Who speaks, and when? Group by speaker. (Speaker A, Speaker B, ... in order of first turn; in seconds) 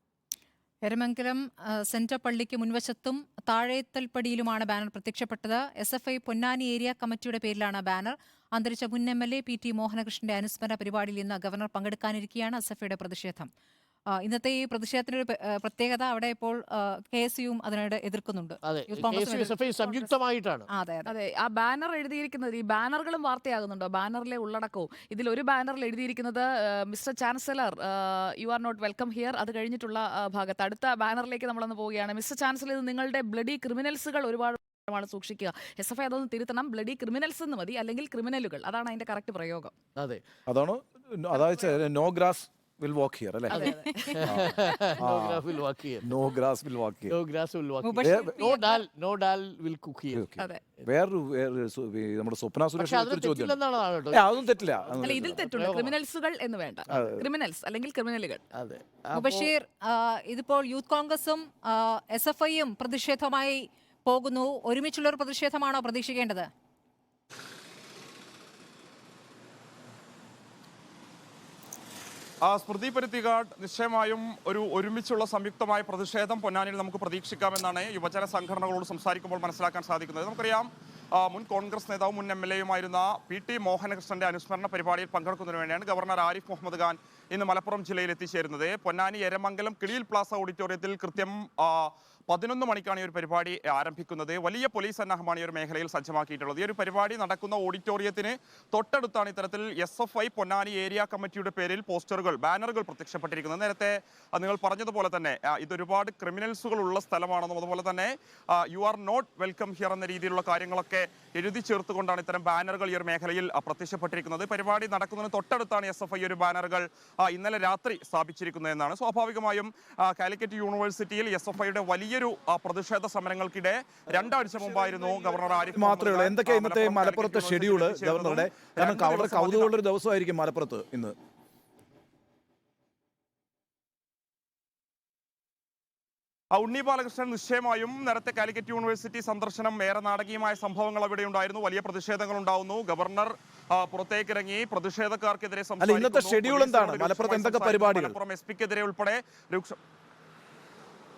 Speaker A: 0.8-13.5, 14.1-20.0, 20.7-21.1, 47.8-48.8, 59.1-66.5
Speaker B: 18.7-20.7, 40.0-40.2, 43.5-46.1, 47.1-50.3, 52.8-54.2, 54.9-56.0, 58.5-59.5
Speaker C: 21.1-39.7, 43.9-44.9, 55.0-58.4
Speaker D: 40.5-45.5, 46.0-47.2, 48.0-48.5, 50.1-53.6, 54.1-55.4, 56.9-57.3, 125.7-131.2, 145.8-148.2
Speaker E: 72.5-129.7, 136.5-149.8